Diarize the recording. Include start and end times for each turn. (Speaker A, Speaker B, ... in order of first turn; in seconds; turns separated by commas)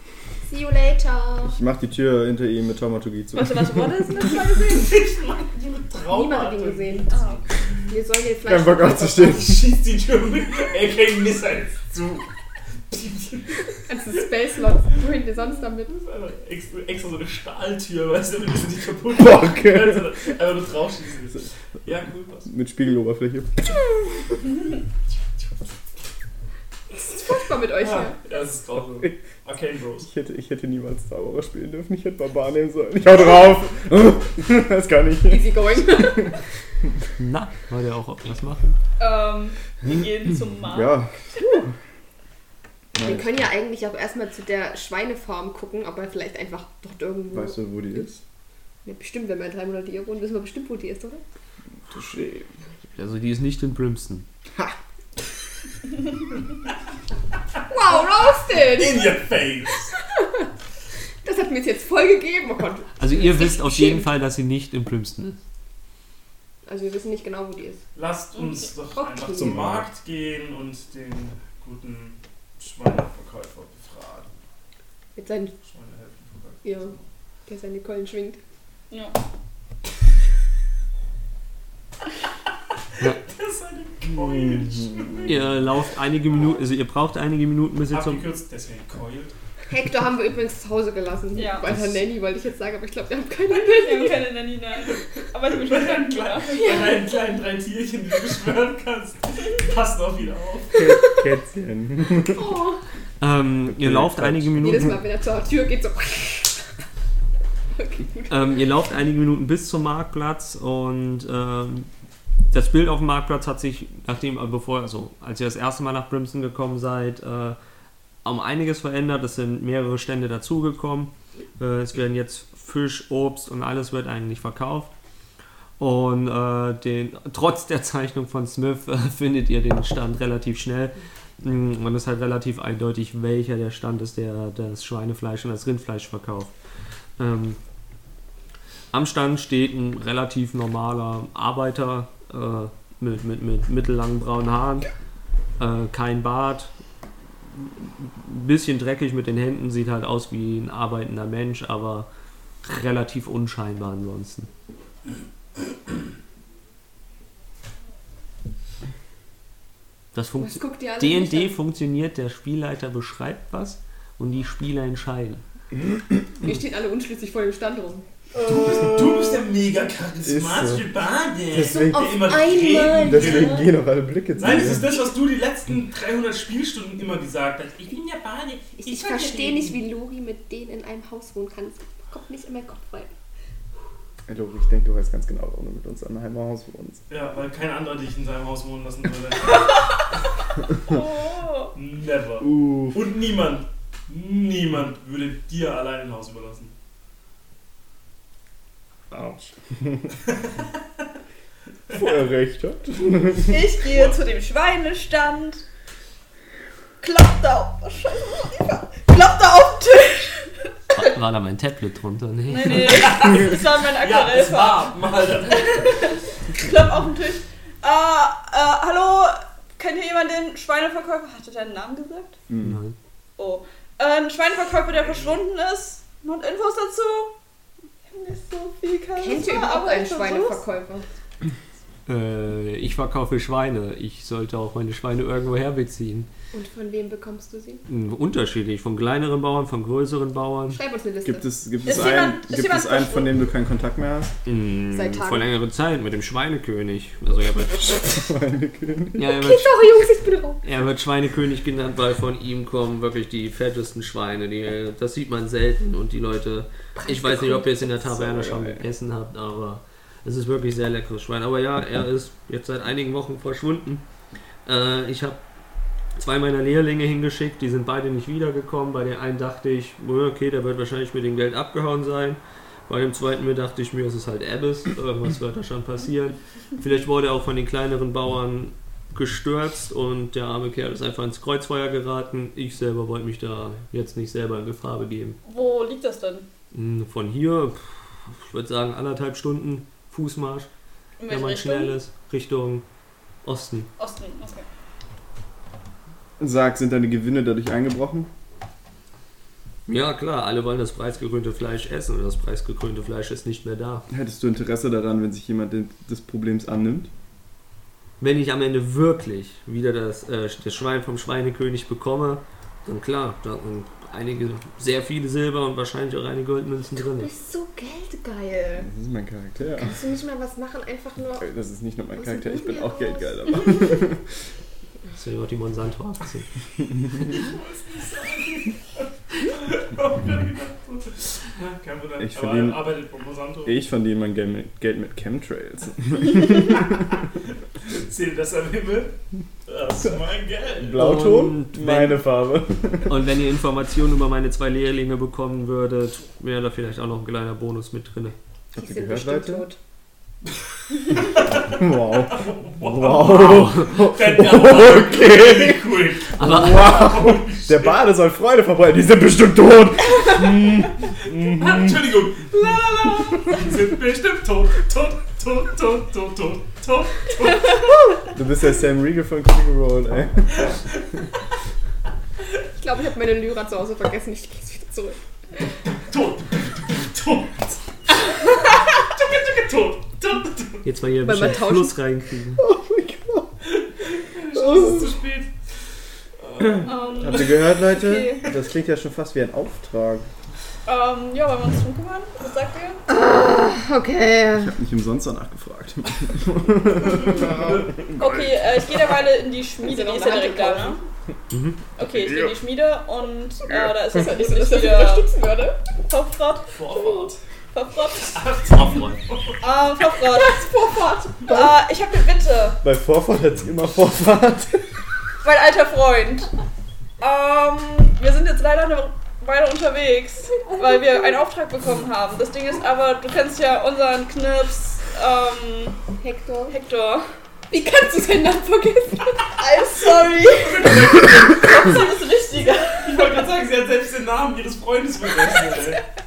Speaker A: 0.5-1.6, Speaker B: 1.4-3.9, Speaker C: 3.4-5.0, Speaker D: 4.5-7.3, Speaker A: 6.1-7.1, Speaker C: 7.1-7.4, Speaker A: 7.9-9.4, Speaker B: 8.5-9.6, Speaker D: 9.4-12.3, Speaker D: 12.9-13.6, Speaker A: 13.9-15.9, Speaker D: 15.9-22.5, Speaker B: 19.1-20.0, Speaker B: 22.5-23.9, Speaker A: 26.9-28.2, Speaker D: 27.7-30.1, Speaker B: 30.0-36.4, Speaker A: 35.3-36.4, Speaker E: 37.2-38.8, Speaker C: 39.0-41.0, Speaker B: 40.7-41.7, Speaker B: 43.0-43.3, Speaker A: 43.0-48.1, Speaker B: 47.3-48.2, Speaker A: 48.9-51.2, Speaker B: 51.9-52.5, Speaker E: 53.0-54.3, Speaker A: 57.7-59.2, Speaker D: 58.6-59.9, Speaker A: 60.2-60.5, Speaker A: 61.2-64.1, Speaker E: 63.0-65.4, Speaker A: 66.7-67.8, Speaker D: 68.0-74.3, Speaker A: 69.0-69.6, Speaker B: 69.3-69.9, Speaker A: 75.2-75.5, Speaker D: 75.6-77.0, Speaker A: 76.6-76.9, Speaker A: 77.5-78.4, Speaker C: 78.9-79.2, Speaker D: 83.2-85.5, Speaker B: 84.1-85.3, Speaker E: 85.2-88.2, Speaker D: 87.9-89.3, Speaker A: 89.7-94.3, Speaker C: 91.3-91.8, Speaker C: 93.5-96.8, Speaker D: 94.9-100.9, Speaker A: 96.7-97.0, Speaker B: 100.8-102.5, Speaker A: 102.2-102.8, Speaker E: 103.2-105.0, Speaker B: 103.8-105.0, Speaker A: 104.6-106.6, Speaker A: 107.8-108.4, Speaker E: 108.3-111.9, Speaker E: 112.5-117.6, Speaker E: 118.2-124.9, Speaker E: 125.8-136.5, Speaker E: 137.2-137.6, Speaker E: 138.9-144.9, Speaker E: 145.6-146.7, Speaker E: 147.6-152.1, Speaker E: 152.6-154.5, Speaker E: 160.1-165.4, Speaker A: 160.4-161.6, Speaker A: 166.4-168.1, Speaker C: 168.3-168.9, Speaker D: 168.4-173.7, Speaker B: 170.2-170.9, Speaker B: 171.5-172.1, Speaker A: 171.6-173.7, Speaker B: 173.0-174.9, Speaker D: 174.4-179.8, Speaker A: 178.8-183.1, Speaker B: 184.3-187.0, Speaker D: 187.1-189.8, Speaker C: 189.6-190.0, Speaker C: 190.8-191.7, Speaker D: 191.8-196.7, Speaker B: 192.4-193.0, Speaker B: 199.1-199.9, Speaker B: 201.9-203.6, Speaker C: 203.4-205.7, Speaker D: 203.9-204.2, Speaker C: 207.0-210.5, Speaker E: 210.9-213.1, Speaker C: 212.5-215.0, Speaker D: 212.8-216.2, Speaker C: 215.6-222.4, Speaker B: 222.5-222.8, Speaker E: 222.6-223.0, Speaker C: 223.4-227.3, Speaker D: 225.0-225.3, Speaker C: 228.1-230.6, Speaker A: 229.2-231.1, Speaker E: 232.1-236.3, Speaker A: 236.5-237.8, Speaker E: 237.9-240.8, Speaker A: 240.7-241.5, Speaker B: 241.2-244.4, Speaker C: 241.8-243.4, Speaker E: 244.5-248.3, Speaker A: 244.9-245.4, Speaker B: 248.0-249.3, Speaker E: 249.2-249.9, Speaker A: 249.4-250.6, Speaker E: 250.6-264.0, Speaker A: 257.0-257.9, Speaker B: 258.1-258.8, Speaker E: 264.7-265.4, Speaker E: 266.2-285.4, Speaker C: 285.4-286.5, Speaker E: 286.7-290.7, Speaker C: 291.2-292.0, Speaker E: 291.3-292.9, Speaker E: 293.4-293.9, Speaker C: 294.0-294.6, Speaker B: 296.4-298.3, Speaker E: 299.9-304.1, Speaker B: 304.1-307.1, Speaker E: 308.2-317.3, Speaker A: 317.2-318.9, Speaker B: 318.8-320.0, Speaker A: 319.8-321.5, Speaker B: 321.4-324.2, Speaker A: 322.2-324.1, Speaker E: 325.2-326.5, Speaker D: 327.3-333.8, Speaker B: 332.2-332.9, Speaker B: 333.6-337.1, Speaker D: 337.8-341.1, Speaker B: 340.8-343.1, Speaker E: 340.9-342.2, Speaker E: 343.1-348.4, Speaker B: 348.8-349.7, Speaker A: 348.8-349.8, Speaker D: 351.1-358.1, Speaker B: 351.5-362.1, Speaker E: 353.2-353.9, Speaker E: 356.4-357.0, Speaker D: 361.2-367.9, Speaker B: 368.1-370.7, Speaker A: 372.8-375.2, Speaker D: 376.1-378.2, Speaker D: 379.0-380.8, Speaker E: 380.8-382.6, Speaker A: 381.2-382.0, Speaker B: 382.6-383.5, Speaker D: 383.7-385.5, Speaker D: 386.4-387.6, Speaker B: 386.6-390.3, Speaker C: 386.9-388.5, Speaker C: 390.9-393.0, Speaker A: 393.1-394.7, Speaker B: 394.5-398.0, Speaker D: 397.0-398.5, Speaker C: 398.1-401.0, Speaker A: 399.8-401.0, Speaker E: 401.5-401.8, Speaker C: 402.0-405.3, Speaker A: 404.0-405.8, Speaker C: 406.0-406.8, Speaker D: 406.7-407.4, Speaker C: 407.7-408.4, Speaker D: 408.3-409.6, Speaker E: 408.8-409.2, Speaker C: 409.6-410.6, Speaker A: 410.2-411.7, Speaker C: 411.4-412.8, Speaker B: 412.8-414.9, Speaker C: 415.4-416.5, Speaker C: 417.2-426.0, Speaker A: 420.7-421.0, Speaker A: 426.2-426.8, Speaker C: 426.7-427.3, Speaker A: 427.7-429.5, Speaker C: 429.6-433.2, Speaker D: 430.4-431.6, Speaker D: 433.0-436.0